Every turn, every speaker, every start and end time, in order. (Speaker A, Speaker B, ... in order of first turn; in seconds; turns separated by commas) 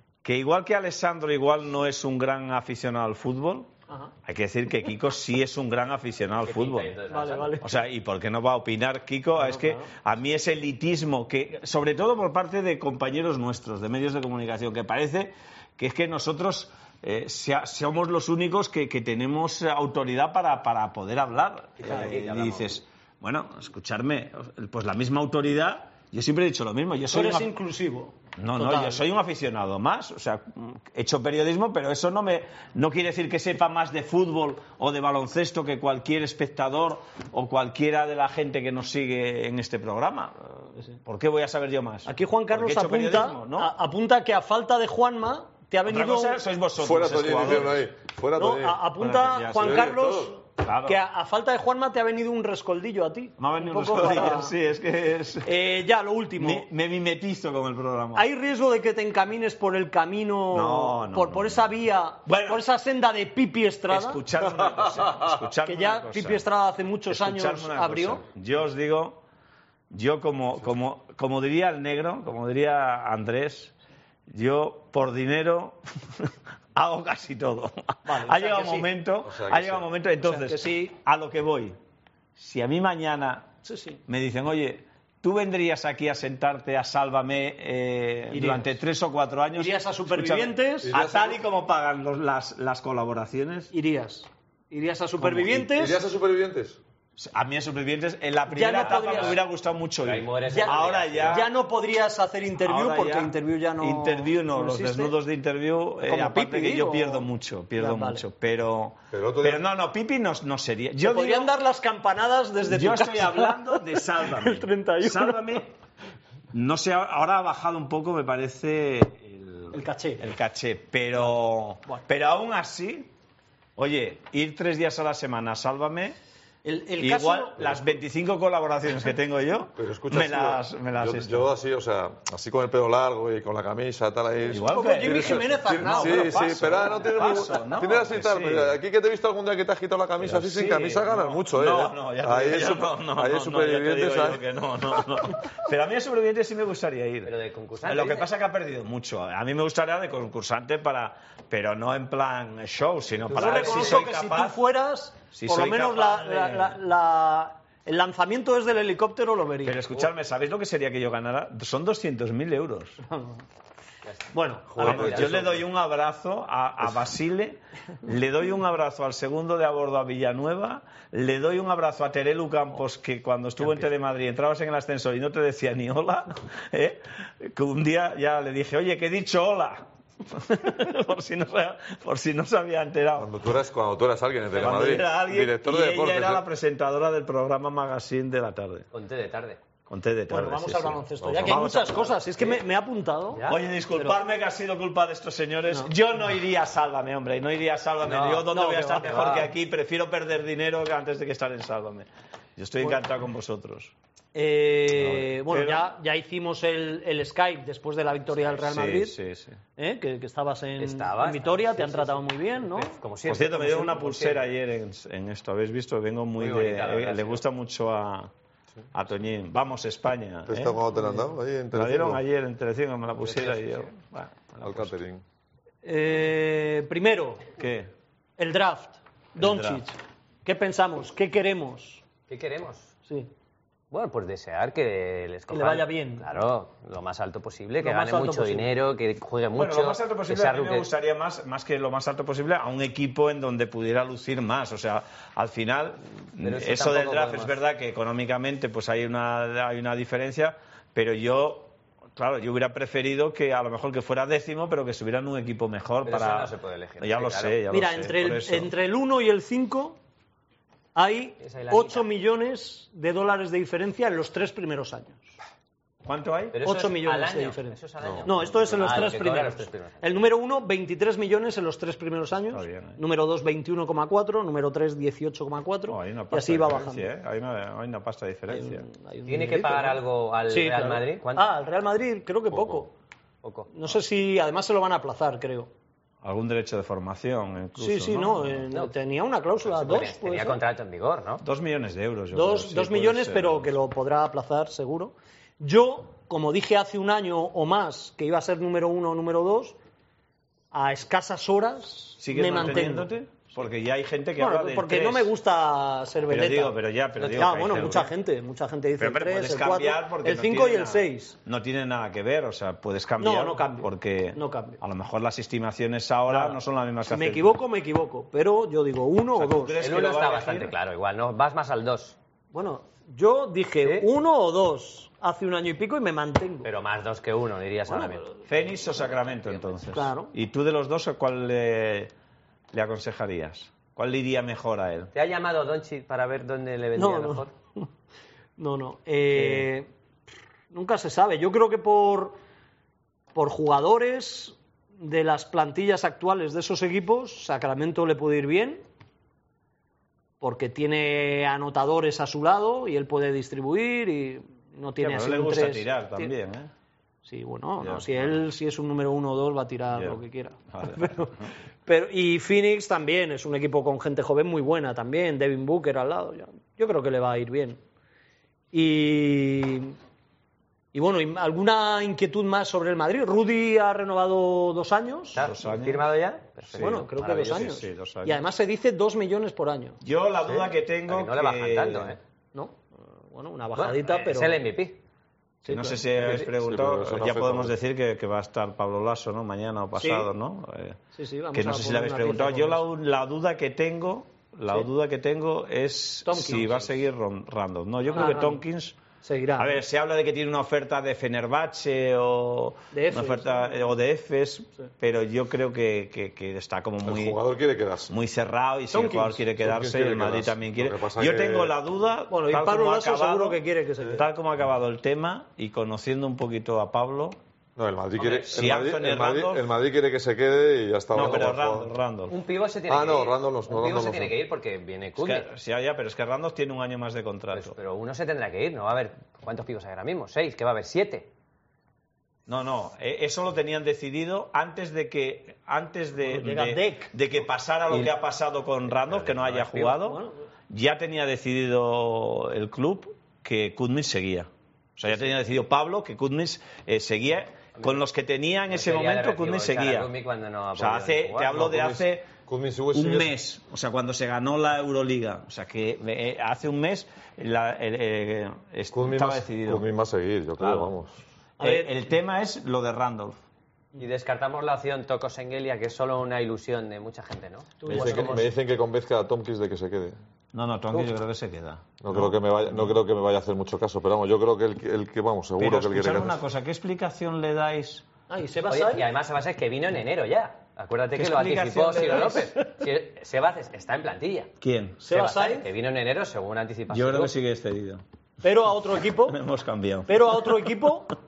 Speaker A: 0.2-3.7, Speaker A: 4.2-6.9, Speaker B: 6.4-7.6, Speaker C: 7.1-7.7, Speaker A: 7.6-27.5, Speaker C: 9.4-9.9, Speaker B: 21.8-22.8, Speaker C: 27.1-29.0, Speaker A: 28.4-43.7, Speaker C: 42.0-46.4, Speaker A: 45.9-47.8, Speaker D: 46.8-48.8, Speaker C: 48.4-54.6, Speaker A: 49.0-49.9, Speaker D: 49.5-50.4, Speaker A: 50.6-51.0, Speaker A: 53.4-55.5, Speaker C: 55.4-56.7, Speaker A: 56.4-58.3, Speaker C: 58.1-64.2, Speaker A: 60.5-61.6, Speaker A: 62.3-62.6, Speaker A: 63.9-66.4, Speaker D: 64.7-65.4, Speaker C: 65.6-68.2, Speaker A: 67.1-69.2, Speaker A: 69.9-73.7, Speaker A: 74.3-81.8, Speaker C: 78.1-78.9, Speaker D: 79.2-79.9, Speaker C: 80.2-80.9, Speaker A: 82.4-83.5, Speaker C: 83.6-84.0, Speaker A: 84.1-93.7, Speaker C: 88.3-88.7, Speaker C: 89.5-90.9, Speaker D: 90.8-91.4, Speaker C: 93.7-96.0, Speaker A: 95.2-95.7, Speaker D: 95.7-96.8, Speaker A: 97.2-101.5, Speaker C: 98.5-99.4, Speaker B: 98.8-99.4, Speaker B: 100.0-101.5, Speaker C: 100.5-105.2, Speaker A: 102.6-111.5, Speaker C: 106.0-108.2, Speaker D: 109.1-109.7, Speaker C: 111.0-115.6, Speaker A: 112.7-115.7, Speaker A: 116.5-123.1, Speaker C: 119.7-120.3, Speaker A: 123.8-126.2, Speaker C: 126.7-127.8, Speaker A: 127.0-131.5, Speaker D: 129.8-144.4, Speaker A: 134.5-138.8, Speaker C: 134.5-136.9, Speaker A: 140.2-147.3, Speaker B: 147.2-148.3, Speaker A: 147.8-154.6, Speaker B: 153.2-154.1, Speaker C: 153.3-159.8, Speaker A: 155.3-156.8, Speaker A: 159.6-163.0, Speaker C: 163.1-163.4, Speaker C: 164.3-165.0, Speaker D: 164.7-165.7, Speaker B: 164.8-165.4, Speaker A: 164.8-183.3, Speaker D: 183.2-186.4, Speaker A: 184.6-188.9, Speaker B: 188.9-189.6, Speaker A: 189.9-192.1, Speaker C: 190.3-194.2, Speaker D: 191.2-192.1, Speaker B: 193.3-193.6, Speaker A: 193.5-203.9, Speaker B: 198.0-198.5, Speaker C: 198.5-199.5, Speaker B: 199.0-199.5, Speaker C: 204.3-209.2, Speaker A: 205.0-205.9, Speaker A: 208.5-209.6, Speaker C: 209.8-213.0, Speaker B: 210.8-214.5, Speaker A: 213.2-218.3, Speaker B: 216.4-217.4, Speaker A: 218.9-220.8, Speaker D: 220.5-222.2, Speaker A: 221.7-224.9, Speaker B: 223.2-223.9, Speaker D: 224.6-225.2, Speaker C: 225.8-227.5, Speaker A: 227.6-227.9, Speaker C: 228.4-232.0, Speaker A: 229.4-229.8, Speaker B: 232.3-232.9, Speaker B: 233.9-240.9, Speaker C: 235.5-236.3, Speaker C: 237.8-238.7, Speaker A: 239.6-258.7, Speaker B: 246.4-247.6, Speaker B: 256.0-257.6, Speaker C: 257.7-260.0, Speaker C: 260.9-265.3, Speaker B: 261.4-262.1, Speaker A: 266.0-266.6, Speaker B: 266.5-270.1, Speaker C: 266.6-277.1, Speaker D: 268.0-268.9, Speaker A: 272.5-273.0, Speaker A: 275.9-278.9, Speaker C: 278.5-282.9, Speaker B: 279.3-281.5, Speaker D: 282.5-282.8, Speaker B: 283.4-283.7, Speaker C: 283.7-285.7, Speaker A: 286.2-288.6, Speaker C: 287.8-290.6, Speaker B: 289.6-291.4, Speaker A: 291.4-293.7, Speaker C: 292.3-299.8, Speaker C: 300.7-303.1, Speaker A: 302.2-305.3, Speaker C: 304.4-311.4, Speaker A: 306.3-308.1, Speaker A: 309.0-317.6, Speaker C: 313.2-314.8, Speaker C: 316.3-319.8, Speaker A: 319.4-320.7, Speaker B: 319.8-322.2, Speaker C: 322.5-326.7, Speaker B: 326.6-329.8, Speaker C: 327.9-328.4, Speaker A: 328.5-332.1, Speaker C: 329.9-330.3, Speaker A: 332.7-335.1, Speaker B: 335.1-337.5, Speaker C: 337.0-337.9, Speaker C: 338.6-339.9, Speaker B: 339.4-339.6, Speaker C: 340.7-342.4, Speaker C: 343.4-348.8, Speaker C: 350.4-356.3, Speaker A: 355.0-356.7, Speaker C: 357.2-367.8, Speaker A: 357.8-358.4, Speaker A: 359.9-360.2, Speaker A: 360.7-361.5, Speaker C: 368.7-370.0, Speaker C: 370.9-375.5, Speaker B: 375.3-377.7, Speaker A: 375.4-376.1, Speaker A: 376.7-378.4, Speaker C: 376.8-380.0, Speaker A: 380.0-382.2, Speaker B: 380.4-382.2, Speaker C: 382.5-384.6, Speaker B: 383.8-385.0, Speaker C: 385.6-386.0, Speaker A: 385.7-391.0, Speaker D: 386.2-387.8, Speaker C: 390.0-390.3, Speaker C: 391.1-392.8, Speaker A: 391.5-399.0, Speaker C: 396.2-396.9, Speaker C: 398.1-398.6, Speaker C: 399.2-399.8, Speaker A: 399.6-407.4, Speaker C: 402.9-403.9, Speaker D: 407.0-408.1, Speaker A: 408.1-417.4, Speaker C: 408.9-409.4, Speaker D: 409.6-411.8, Speaker C: 412.3-414.2, Speaker D: 417.8-421.9, Speaker A: 418.2-419.6, Speaker A: 421.1-422.4, Speaker B: 421.1-421.5, Speaker B: 422.3-425.5, Speaker D: 422.9-424.4, Speaker A: 425.2-427.8, Speaker B: 427.5-431.3, Speaker A: 432.5-450.1, Speaker C: 436.2-437.1, Speaker B: 437.9-438.1, Speaker B: 439.1-440.0, Speaker C: 439.9-440.4, Speaker B: 448.7-451.6, Speaker A: 450.8-452.3, Speaker D: 451.5-453.3, Speaker A: 452.9-459.8, Speaker D: 458.9-461.2, Speaker A: 460.6-460.9, Speaker C: 461.6-461.9, Speaker A: 461.6-463.4, Speaker B: 464.0-468.5, Speaker C: 467.8-468.5, Speaker D: 467.9-470.2, Speaker A: 470.5-472.3, Speaker D: 472.0-476.4, Speaker A: 475.6-478.1, Speaker C: 478.3-479.1, Speaker B: 478.7-484.5, Speaker A: 481.1-482.5, Speaker A: 484.6-485.0, Speaker C: 485.0-485.7, Speaker B: 485.1-487.3, Speaker A: 486.9-488.0, Speaker C: 488.4-489.4, Speaker A: 489.2-490.5, Speaker C: 490.1-491.1